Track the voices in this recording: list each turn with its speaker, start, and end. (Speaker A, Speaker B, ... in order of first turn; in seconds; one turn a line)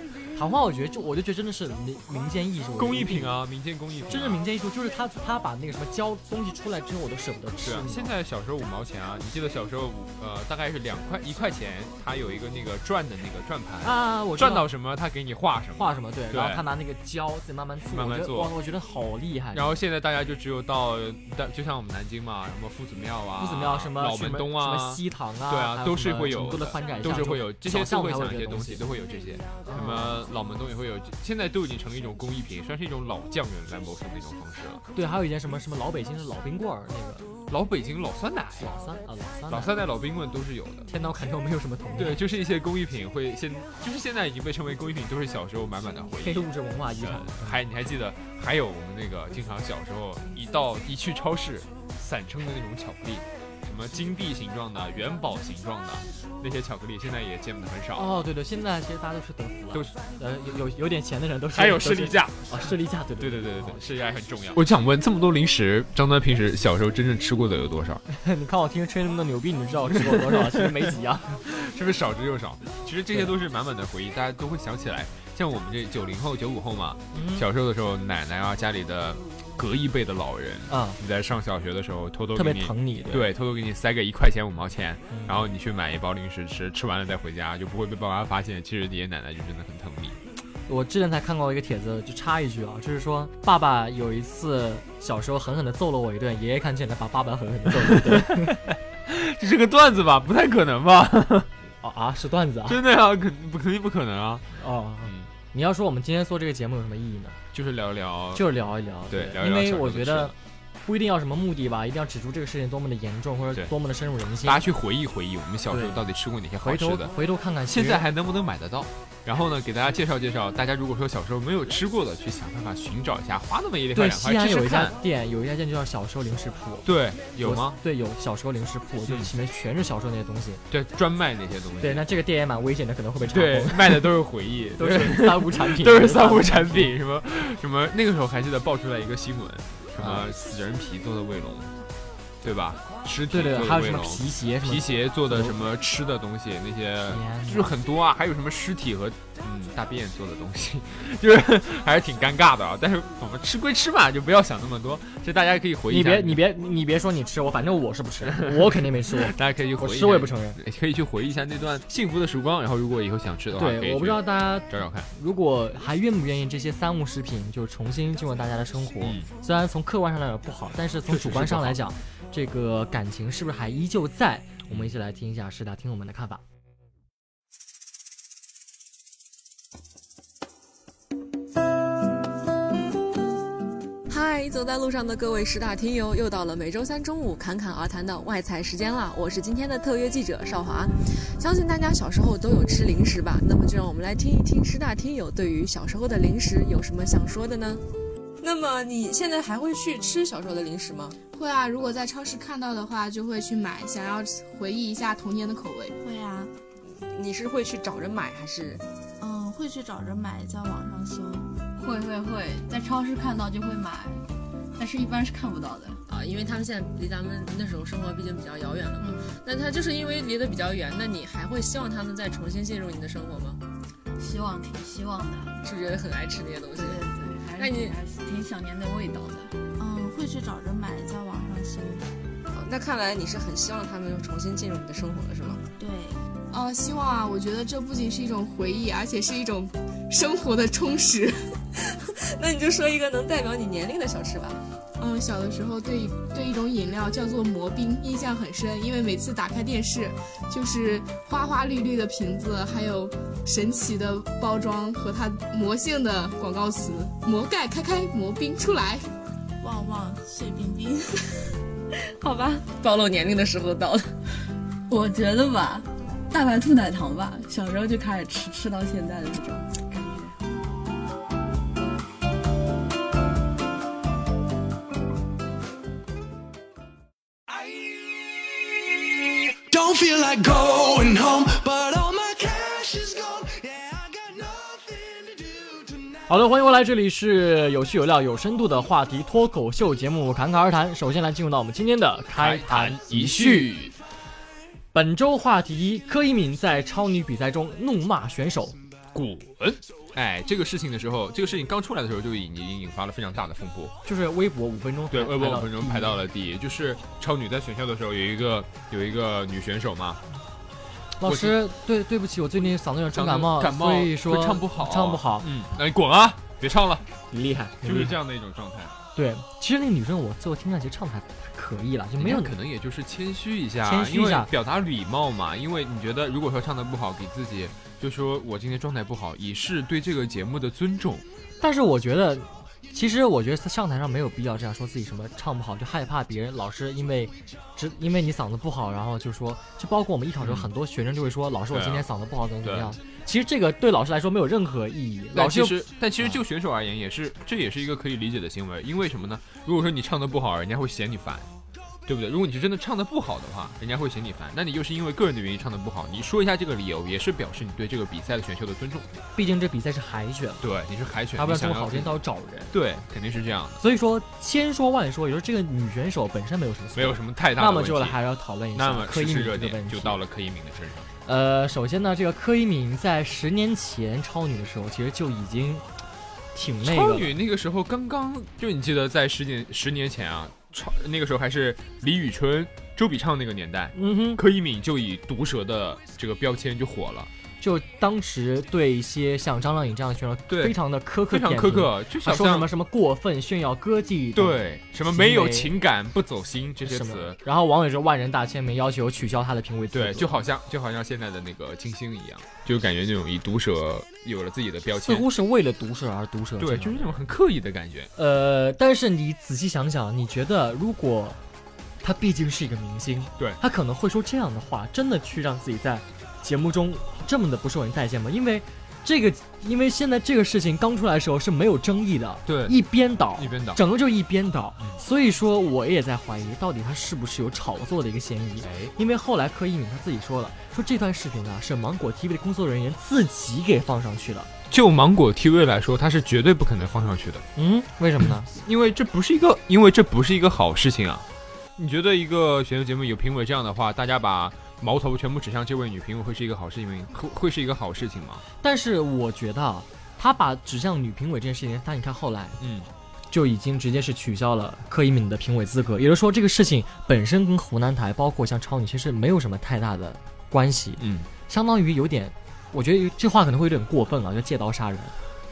Speaker A: 0.3-3.4
Speaker B: 2.8-4.4
Speaker A: 4.1-8.1
Speaker B: 7.6-16.6
Speaker A: 13.8-14.7
Speaker A: 15.8-19.8
Speaker B: 17.9-18.5
Speaker B: 19.5-34.8
Speaker A: 23.4-28.8
Speaker A: 29.6-30.2
Speaker A: 34.9-37.3
Speaker B: 37.5-38.7
Speaker A: 38.6-39.7
Speaker B: 39.5-40.9
Speaker A: 40.9-42.2
Speaker B: 42.0-46.5
Speaker A: 46.2-47.6
Speaker B: 47.0-58.2
Speaker A: 57.9-63.8
Speaker B: 59.7-60.0
Speaker B: 61.5-68.0
Speaker A: 68.1-71.4
Speaker B: 69.9-90.2
Speaker A: 77.1-77.5
Speaker A: 80.7-81.0
Speaker A: 82.3-83.3
Speaker A: 85.1-85.4
Speaker A: 90.7-98.6
Speaker B: 97.8-101.5
Speaker A: 101.8-102.8
Speaker B: 102.7-105.3
Speaker A: 104.6-107.4
Speaker B: 107.5-108.5
Speaker A: 108.3-110.3
Speaker B: 109.1-110.3
Speaker A: 110.8-114.6
Speaker B: 114.4-117.1
Speaker A: 115.7-116.0
Speaker A: 116.6-118.1
Speaker B: 117.7-125.0
Speaker A: 123.9-126.9
Speaker B: 126.8-127.8
Speaker A: 127.4-130.6
Speaker B: 129.1-129.3
Speaker B: 130.7-132.1
Speaker A: 131.8-134.1
Speaker B: 133.2-141.7
Speaker A: 134.8-136.9
Speaker A: 139.9-140.3
Speaker B: 142.4-156.4
Speaker A: 143.3-145.6
Speaker A: 147.1-147.7
Speaker A: 155.9-160.6
Speaker B: 158.2-165.1
Speaker A: 163.5-176.4
Speaker B: 169.0-169.3
Speaker B: 171.1-171.8
Speaker C: 184.1-197.8
Speaker C: 198.4-201.2
Speaker D: 201.3-205.9
Speaker E: 206.0-206.5
Speaker C: 206.8-208.8
Speaker E: 209.2-211.5
Speaker F: 211.8-214.2
Speaker F: 214.8-216.0
Speaker C: 216.1-223.6
Speaker F: 219.0-219.3
Speaker F: 224.2-225.6
Speaker C: 225.6-227.1
Speaker F: 226.8-229.6
Speaker C: 227.6-228.0
Speaker E: 229.8-232.1
Speaker C: 232.5-235.6
Speaker E: 235.8-236.2
Speaker D: 236.5-241.3
Speaker C: 242.4-244.6
Speaker D: 245.0-259.0
Speaker E: 259.6-261.1
Speaker C: 262.2-264.1
Speaker F: 264.9-270.3
Speaker G: 277.5-278.1
Speaker G: 279.7-286.1
Speaker A: 286.3-293.7
Speaker B: 292.3-293.9
Speaker A: 294.9-298.8
Speaker B: 299.1-303.9
Speaker A: 304.1-306.2
Speaker B: 305.1-310.2
Speaker A: 311.2-315.5
Speaker B: 311.2-311.6
Speaker B: 313.1-317.1
Speaker A: 317.3-318.2
Speaker B: 317.8-318.9
Speaker A: 319.1-322.5
Speaker B: 322.2-331.3
Speaker A: 323.8-324.5
Speaker A: 331.6-346.4
Speaker B: 340.4-340.7
Speaker B: 341.7-342.1
Speaker B: 342.6-343.0
Speaker B: 345.3-351.5
Speaker B: 352.1-359.1
Speaker A: 359.4-360.6
Speaker B: 360.6-363.8
Speaker A: 361.4-362.7
Speaker A: 363.8-370.2
Speaker B: 366.9-368.2
Speaker B: 368.7-371.1
Speaker A: 371.2-375.9
Speaker A: 376.5-377.3
Speaker B: 376.8-387.3
Speaker A: 383.9-384.4
Speaker A: 387.6-395.8
Speaker B: 390.5-392.7
Speaker B: 394.3-397.4
Speaker A: 396.9-400.4
Speaker B: 399.9-405.3
Speaker A: 404.9-407.1
Speaker B: 406.6-408.1
Speaker A: 408.1-411.4
Speaker A: 412.0-434.5
Speaker B: 422.5-422.8
Speaker B: 423.4-423.8
Speaker B: 428.6-428.9
Speaker B: 434.7-437.5
Speaker A: 437.6-438.5
Speaker B: 438.2-448.4
Speaker A: 448.6-452.6
Speaker B: 452.6-452.9
Speaker A: 453.3-465.1
Speaker B: 461.0-461.3